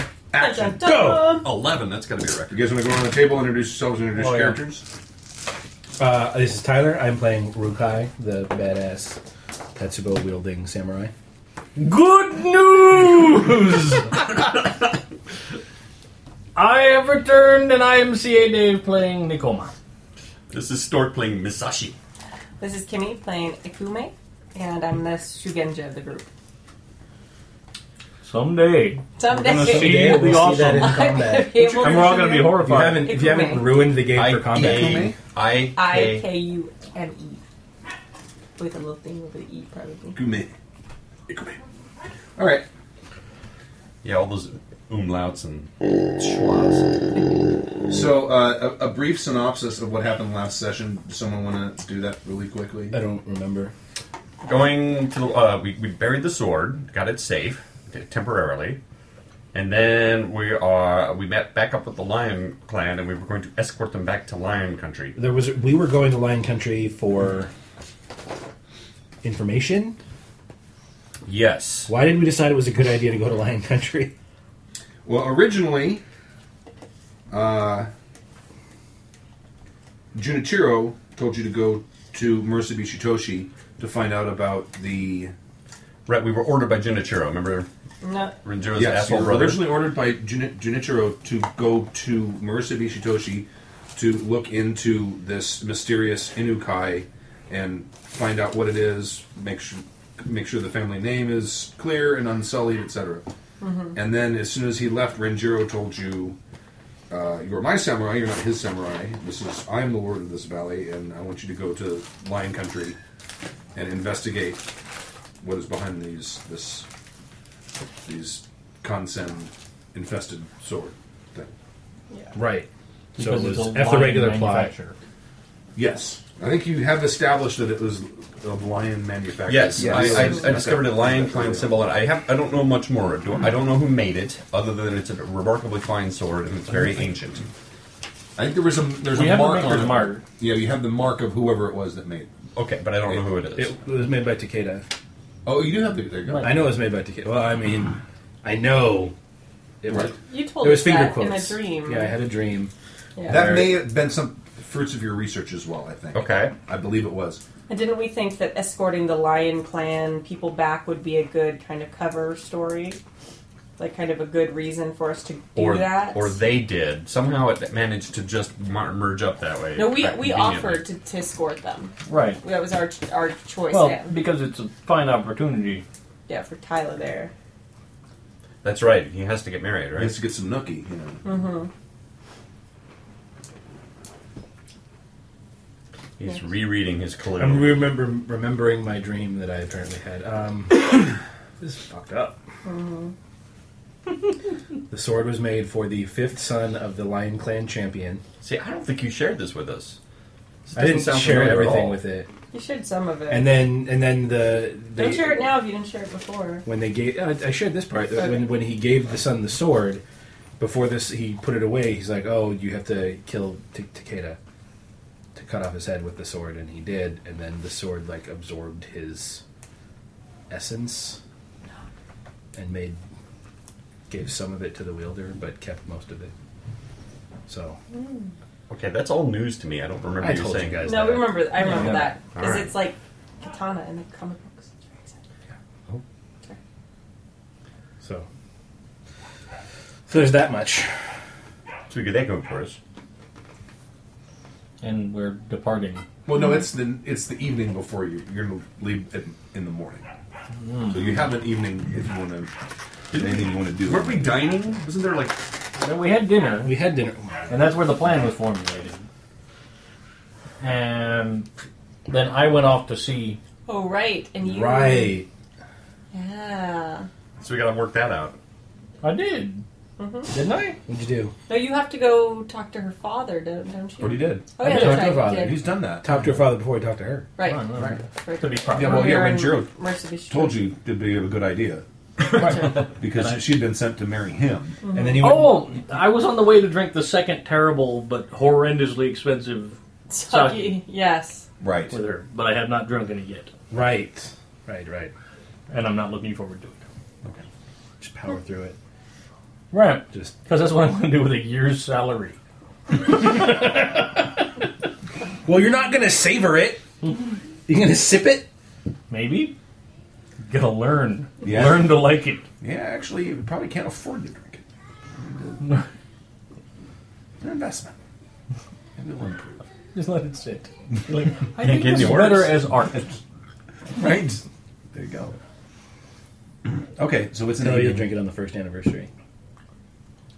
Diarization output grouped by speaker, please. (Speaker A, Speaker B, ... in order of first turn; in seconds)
Speaker A: 0.3-1.1, 2.5-4.8, 34.5-35.2, 40.1-40.5, 41.3-41.6, 42.4-42.6, 47.9-53.0, 75.0-76.0, 77.3-77.9, 80.1-85.3, 88.8-103.2, 103.9-106.3, 107.1-113.0, 113.7-114.6, 115.4-116.9, 118.0-121.5, 125.7-131.9, 138.3-142.3, 145.4-146.7, 153.2-157.4, 179.9-181.2, 246.2-250.1, 250.9-252.5, 253.1-254.3, 274.0-276.1, 278.7-279.7, 280.3-281.8, 282.4-284.8, 291.6-291.9, 311.4-312.1, 312.6-314.6, 315.2-315.8, 317.4-317.9, 318.9-319.6, 322.9-323.1, 323.9-325.4, 326.7-328.1
Speaker B: 0.4-1.5, 22.6-26.2, 29.2-33.9, 35.8-37.4, 38.6-40.2, 88.0-88.3, 103.6-104.0, 150.2-152.1, 153.2-153.6, 157.7-163.0, 163.8-166.4, 169.7-174.1, 176.3-177.3, 181.2-181.7, 192.6-193.1, 202.5-203.5, 204.9-206.6, 227.9-228.3, 230.8-235.2, 246.3-246.7, 263.7-265.2, 266.1-267.1, 270.0-270.3, 271.5-275.6, 277.4-280.6, 282.4-282.8, 284.8-285.4, 290.1-291.5
Speaker C: 0.8-1.4, 6.0-9.2, 9.7-11.1, 29.3-35.1, 52.9-53.7, 65.2-67.5, 69.2-70.0, 71.8-74.1, 122.3-124.7, 129.8-130.5, 143.5-144.8, 146.4-149.1, 149.8-152.7, 153.2-153.8, 187.4-192.4, 194.9-198.2, 200.7-202.3, 203.3-205.5, 206.7-210.0, 210.6-214.4, 215.3-219.4, 220.5-221.2, 222.5-223.0, 224.1-226.3, 227.5-227.8, 230.2-232.1, 238.0-238.3, 240.1-241.0, 256.6-257.6, 264.4-265.3, 270.9-271.3, 274.6-277.3, 284.9-285.6, 293.7-295.1, 298.0-298.8, 302.9-304.4, 305.4-306.8, 307.6-308.5, 327.6-329.1
Speaker D: 1.4-2.6, 20.5-22.0, 34.0-36.3, 44.0-47.2, 54.4-58.8, 59.5-65.1, 71.2-71.9, 86.0-87.7, 88.4-89.7, 129.5-137.4, 142.5-143.8, 156.1-156.5, 165.5-170.8, 178.6-180.1, 186.2-187.9, 198.4-200.0, 200.6-202.0, 228.7-230.9, 231.7-232.7, 241.9-242.8, 253.1-255.4, 267.4-268.4, 321.6-322.6
Speaker E: 4.1-4.6, 11.8-14.4, 16.6-19.7, 28.2-33.2, 123.2-125.0, 139.1-140.2, 146.2-146.7, 172.1-172.4, 173.7-175.8, 231.6-232.1, 244.8-246.0, 250.6-251.2, 255.8-256.8, 257.5-259.1, 260.6-261.5, 262.1-263.4, 269.0-269.6, 270.3-270.8, 277.4-279.3, 282.4-283.6, 285.2-290.8, 291.9-293.5, 295.7-296.9, 299.7-302.4, 307.0-307.3, 309.1-309.6, 310.4-312.4, 319.9-323.1